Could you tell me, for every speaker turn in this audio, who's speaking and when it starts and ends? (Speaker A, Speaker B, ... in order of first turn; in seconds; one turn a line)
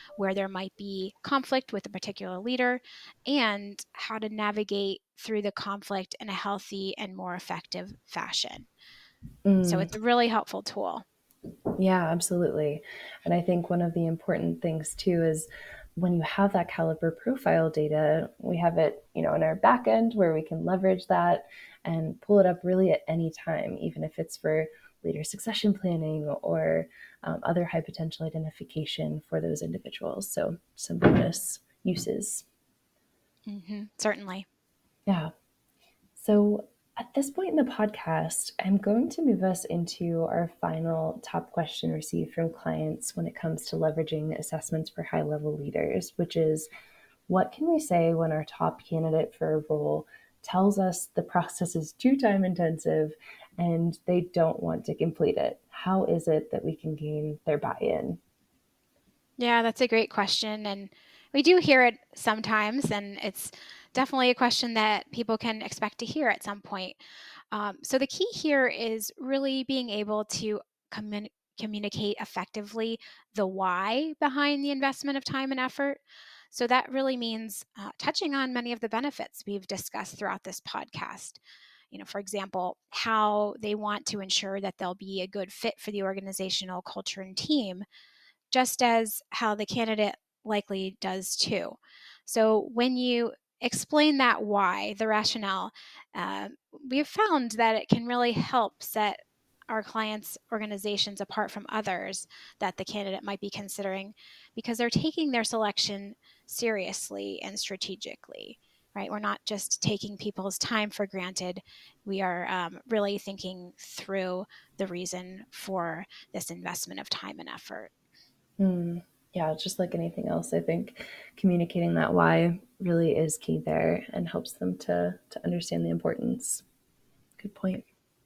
Speaker A: 0.2-8.7
Speaker B: 9.4-9.9
Speaker A: 9.6-11.0
Speaker B: 11.8-32.4
Speaker A: 33.5-34.5
Speaker B: 36.1-46.7
Speaker B: 47.3-58.2
Speaker A: 59.4-67.0
Speaker A: 67.5-81.4
Speaker A: 81.9-87.8
Speaker A: 88.5-117.9
Speaker B: 118.6-126.6
Speaker B: 127.4-127.8